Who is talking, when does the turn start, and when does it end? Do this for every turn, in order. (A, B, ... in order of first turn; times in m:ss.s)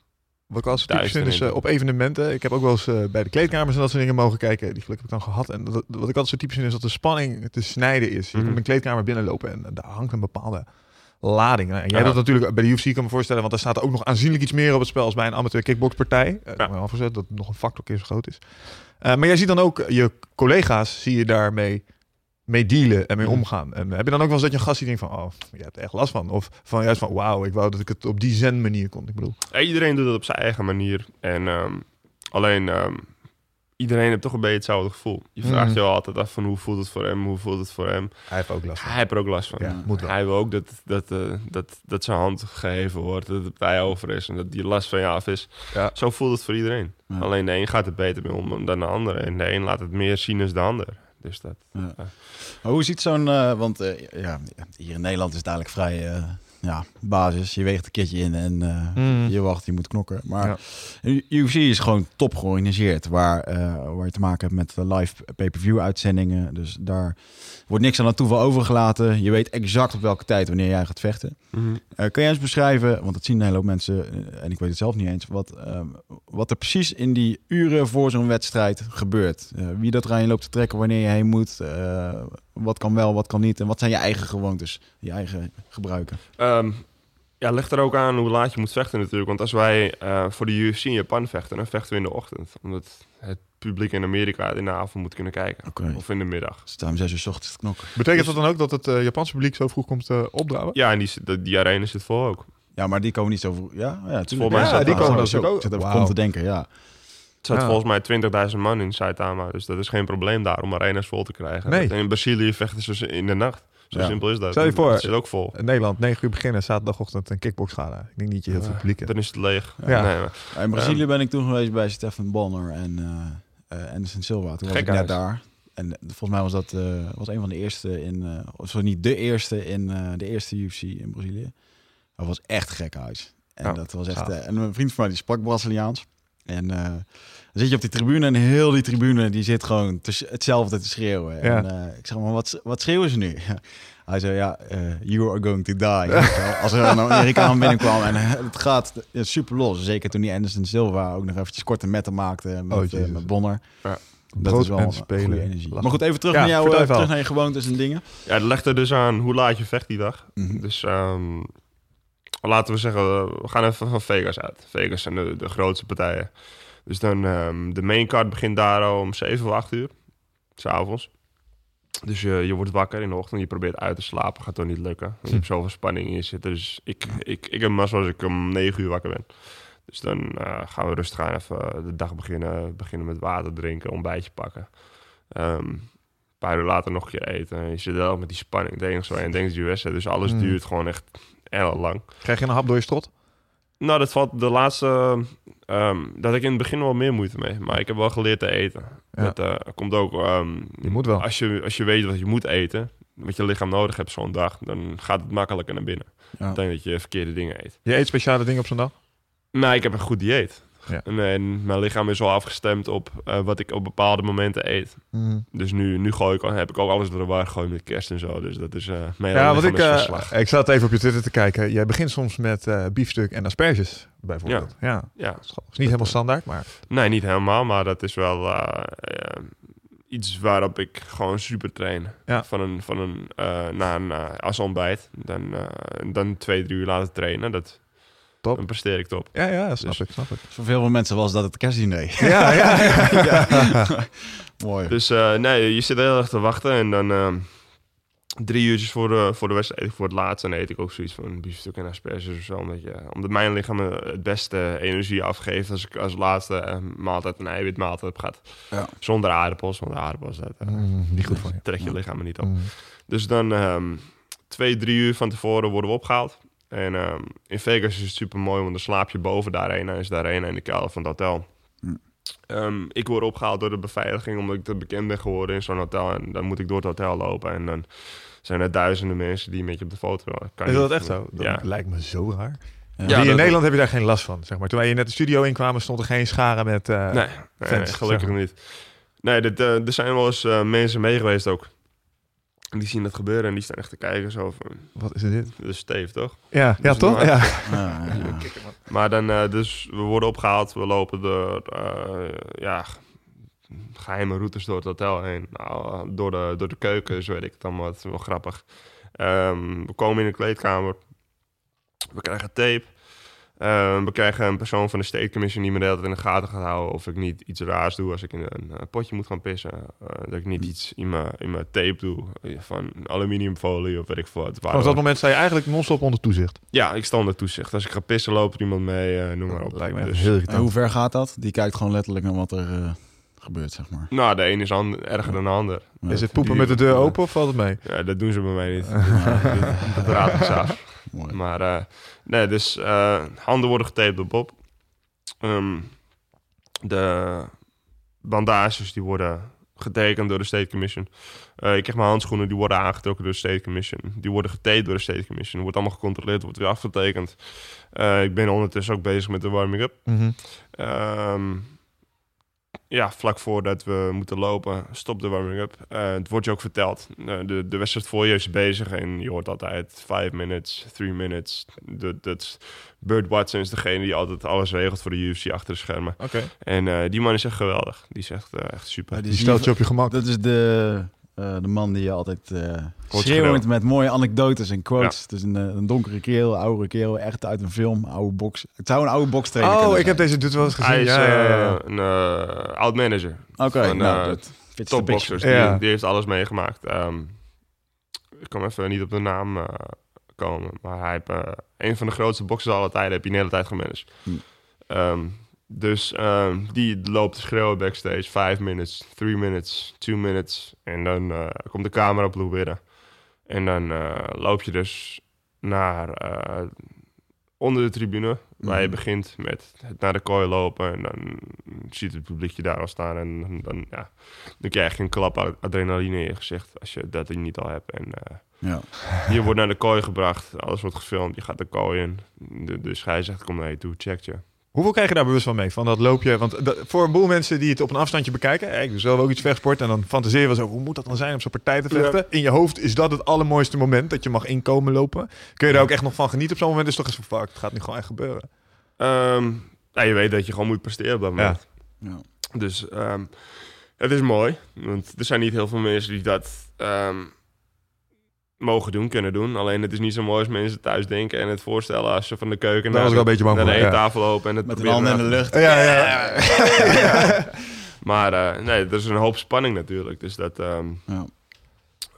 0:00.5-0:29.4 A
0:00.7-0:01.6 B
0:08.3-0:08.6 B
0:11.9-0:12.3 B
0:23.2-0:23.5 B
0:29.5-0:52.1 B
0:35.4-0:35.8 A
0:38.3-0:40.2 A
0:39.6-0:39.8 C
0:51.7-1:26.2 C
0:59.0-0:59.4 A
1:11.5-1:11.8 B
1:26.4-1:36.7 B
1:35.7-1:38.1 C
1:37.9-1:40.8 A
1:38.1-1:38.4 B
1:40.7-1:42.5 B
1:42.7-1:46.8 C
1:44.3-1:45.4 B
1:44.5-1:46.2 A
1:47.4-1:55.6 B
1:47.5-1:47.8 A
1:51.7-1:51.9 A
1:53.9-1:54.6 C
1:54.5-2:00.3 A
1:58.5-2:01.0 B
1:59.8-2:38.0 C
2:04.7-2:05.2 B
2:21.4-2:21.7 A
2:32.7-2:37.1 A
2:38.2-2:41.8 B
2:40.4-2:40.6 C
2:42.4-2:51.3 B
2:52.0-3:12.1 B
3:10.3-3:10.6 A
3:12.2-3:13.1 A
3:13.8-3:27.8 B
3:19.1-3:19.4 A
3:20.8-3:21.3 A
3:26.3-3:26.6 C
3:27.8-3:29.0 A
3:29.5-3:40.4 B
3:35.1-3:35.4 A
3:39.3-3:46.7 A
3:44.4-4:00.1 B
3:58.4-4:00.4 A
4:00.5-4:05.0 C
4:02.2-4:03.8 A
4:04.9-4:41.7 B
4:20.6-4:22.7 A
4:21.2-4:22.0 C
4:40.7-4:48.4 A
4:43.0-4:43.2 C
4:43.0-4:43.7 B
4:47.1-5:11.5 B
4:55.0-4:58.7 A
4:57.6-4:58.6 C
5:12.1-5:25.1 B
5:24.7-5:26.6 A
5:26.7-5:30.6 B
5:29.5-5:30.7 A
5:30.4-5:34.1 C
5:34.1-5:46.2 B
5:35.2-5:36.5 C
5:36.1-5:40.2 A
5:39.1-5:40.6 C
5:41.1-5:41.4 C
5:46.8-6:01.8 B
6:00.1-6:00.4 A
6:02.9-6:19.7 B
6:16.2-6:16.5 A
6:19.1-6:30.7 C
6:19.3-6:20.2 A
6:23.1-6:23.7 B
6:29.6-6:31.8 A
6:30.8-6:37.8 B
6:33.6-6:35.7 C
6:35.4-6:35.8 A
6:38.4-7:14.5 B
6:58.6-6:59.0 C
7:08.6-7:08.9 C
7:14.7-7:28.5 A
7:21.9-7:22.2 B
7:29.0-7:37.4 B
7:31.4-7:31.6 A
7:38.6-7:45.7 B
7:42.9-7:44.1 A
7:44.6-7:47.5 C
7:45.5-7:47.2 A
7:48.0-7:51.1 B